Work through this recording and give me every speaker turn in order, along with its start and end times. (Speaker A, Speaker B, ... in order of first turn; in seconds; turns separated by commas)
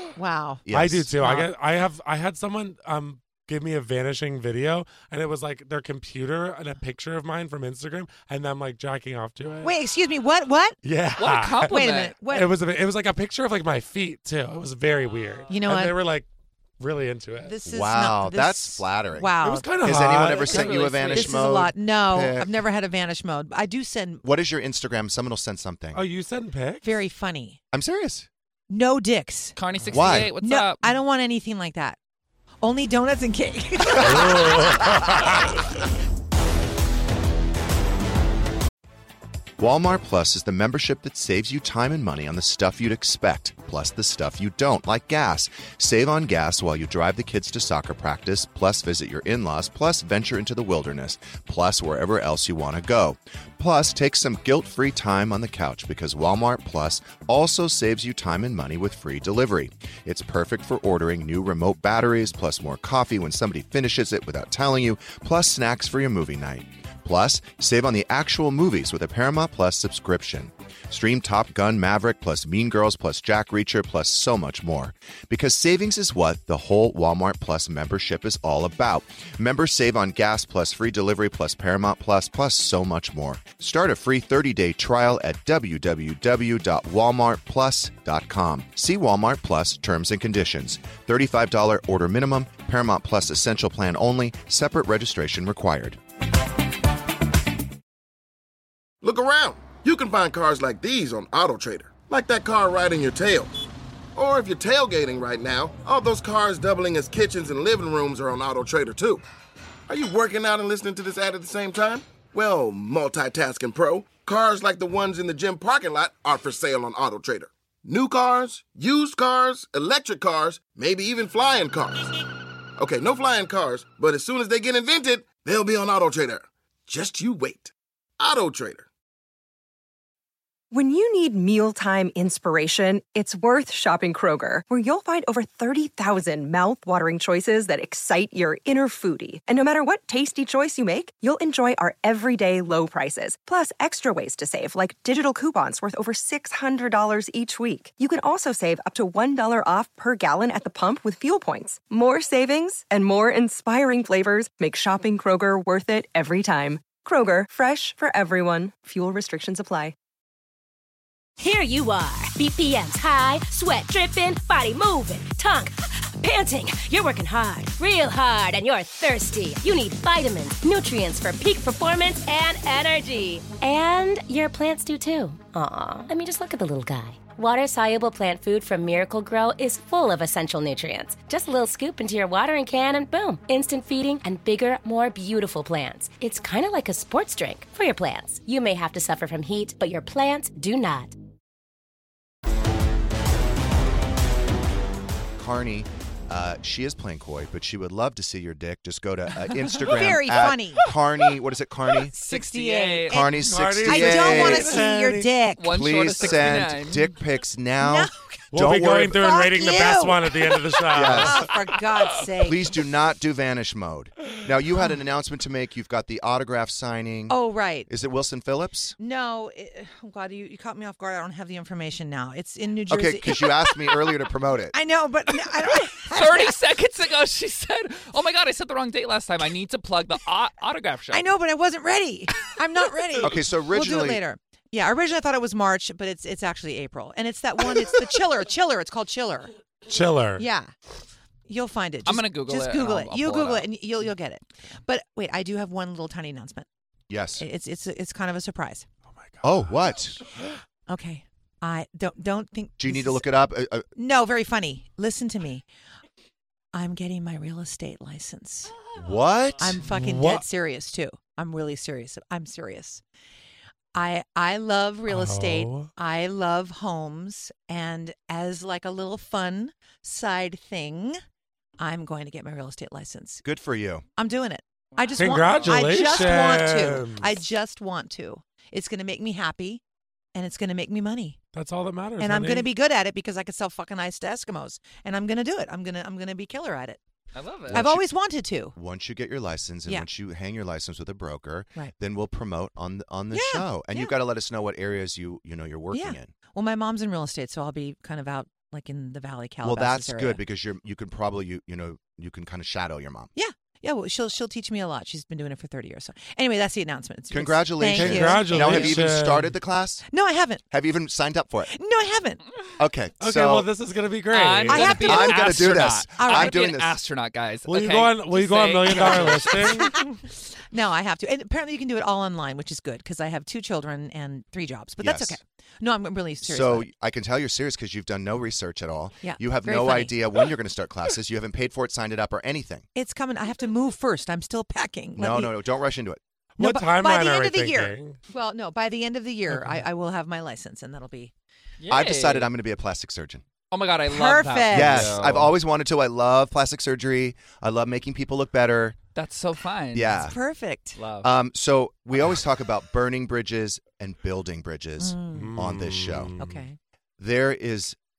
Speaker A: 0.1-0.6, Speaker B: 0.7-1.1, Speaker C: 0.7-9.8, Speaker A: 1.2-1.5, Speaker A: 9.6-10.8, Speaker C: 10.8-16.3, Speaker D: 11.2-12.2, Speaker A: 11.7-12.5, Speaker A: 15.5-16.0, Speaker C: 16.8-17.6, Speaker A: 17.4-19.7, Speaker B: 17.6-22.5, Speaker C: 19.4-20.7, Speaker D: 20.4-21.5, Speaker A: 20.5-24.2, Speaker B: 24.2-26.0, Speaker C: 25.9-26.9, Speaker A: 26.8-27.6, Speaker B: 27.7-28.3, Speaker A: 28.7-29.6, Speaker D: 29.6-30.9, Speaker B: 29.9-30.3, Speaker A: 30.4-32.0, Speaker A: 32.6-35.3, Speaker C: 33.9-35.5, Speaker B: 39.6-96.0, Speaker E: 99.0-103.5, Speaker E: 104.2-109.2, Speaker E: 109.9-122.0, Speaker E: 122.8-128.9, Speaker F: 130.7-159.9, Speaker G: 161.4-191.1, Speaker B: 195.4-202.1, Speaker A: 199.7-200.8, Speaker A: 202.1-205.9, Speaker D: 202.2-203.2, Speaker B: 203.1-204.8, Speaker C: 203.3-205.4, Speaker D: 205.6-207.1, Speaker B: 205.7-209.2, Speaker A: 207.8-208.4, Speaker C: 208.5-211.6, Speaker A: 209.1-212.7, Speaker B: 210.9-211.4, Speaker B: 212.4-219.0, Speaker A: 217.3-217.9, Speaker A: 219.0-224.1, Speaker B: 222.9-224.8, Speaker A: 224.7-226.6, Speaker D: 225.9-231.3, Speaker A: 231.1-239.5, Speaker B: 233.2-234.2, Speaker C: 239.9-240.4, Speaker A: 240.4-240.7, Speaker A: 241.5-246.7, Speaker D: 242.1-243.7, Speaker B: 247.1-247.4, Speaker A: 247.4-248.8, Speaker C: 249.2-249.7, Speaker B: 249.4-250.2, Speaker A: 250.9-253.3, Speaker B: 252.8-253.9, Speaker A: 253.9-255.6, Speaker A: 256.7-258.7, Speaker B: 258.9-259.8, Speaker A: 259.6-263.0, Speaker C: 259.8-260.4, Speaker A: 263.9-271.2, Speaker C: 265.1-265.9, Speaker A: 271.8-273.4, Speaker B: 273.4-274.0, Speaker A: 274.2-279.8, Speaker C: 275.2-277.4, Speaker D: 275.2-276.0, Speaker A: 280.3-281.4, Speaker C: 281.5-282.7, Speaker A: 282.2-287.0, Speaker D: 287.3-287.9, Speaker B: 287.7-288.0, Speaker A: 287.7-288.7, Speaker B: 288.7-296.3, Speaker A: 293.3-294.1, Speaker A: 295.9-300.4, Speaker B: 299.6-303.3, Speaker A: 303.3-308.9, Speaker B: 307.3-310.0, Speaker C: 307.9-309.5, Speaker A: 310.1-310.6, Speaker B: 310.7-311.7, Speaker A: 311.7-312.4, Speaker B: 312.8-313.7, Speaker C: 313.2-315.1, Speaker D: 314.3-319.9, Speaker A: 314.7-316.6, Speaker B: 315.0-317.0, Speaker C: 317.7-320.1, Speaker A: 319.0-326.9, Speaker B: 325.0-325.4, Speaker B: 326.4-332.9, Speaker A: 329.2-330.2, Speaker A: 332.9-335.6, Speaker B: 335.1-336.2, Speaker C: 336.6-338.2, Speaker A: 336.6-341.3, Speaker C: 339.5-339.8, Speaker D: 341.8-342.5, Speaker B: 341.9-343.4, Speaker D: 343.7-345.5, Speaker A: 344.1-345.2, Speaker B: 344.7-349.0, Speaker D: 349.1-350.3, Speaker B: 349.9-350.4, Speaker A: 350.1-351.0, Speaker D: 350.9-351.3, Speaker B: 351.2-356.3, Speaker A: 355.0-355.6, Speaker C: 355.3-356.7, Speaker A: 356.4-356.8, Speaker B: 357.2-357.9